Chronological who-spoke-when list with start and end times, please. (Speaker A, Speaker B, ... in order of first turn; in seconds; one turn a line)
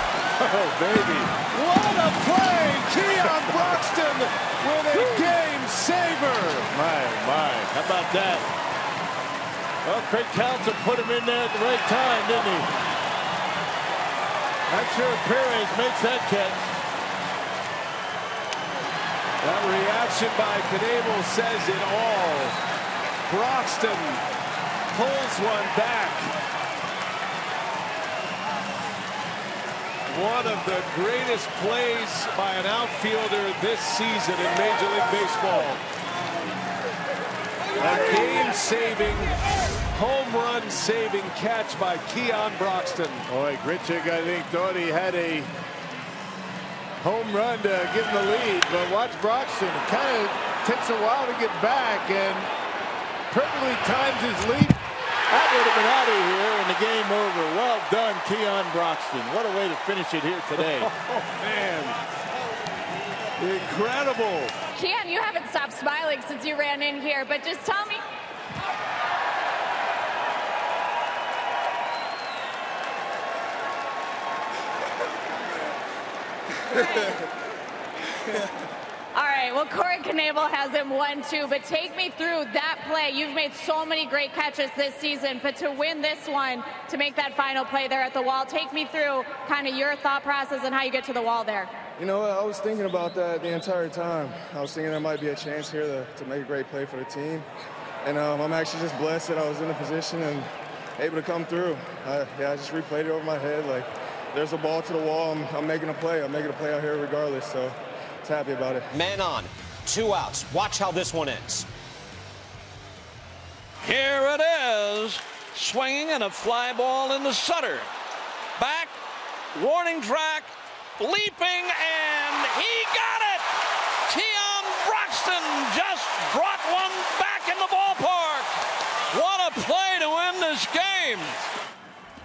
Speaker A: 0.4-6.7
Speaker B: 4.9-5.3
Speaker B: 6.7-8.5
Speaker B: 9.8-12.7
Speaker B: 14.7-16.7
Speaker A: 19.4-22.6
Speaker A: 23.3-24.2
Speaker A: 24.9-26.3
Speaker A: 30.1-35.8
Speaker A: 37.8-39.4
Speaker A: 39.9-43.3
Speaker B: 43.3-45.5
Speaker B: 47.0-52.5
Speaker B: 53.3-54.8
Speaker B: 55.3-60.9
Speaker A: 60.8-62.0
Speaker A: 63.4-64.5
Speaker C: 64.8-68.0
Speaker C: 76.7-77.1
Speaker C: 79.1-91.7
Speaker D: 92.0-97.5
Speaker D: 98.0-108.9
Speaker E: 108.9-111.7
Speaker F: 113.8-117.9
Speaker F: 118.6-118.9
Speaker F: 119.5-123.4
Speaker F: 124.1-128.5
Speaker F: 129.1-131.5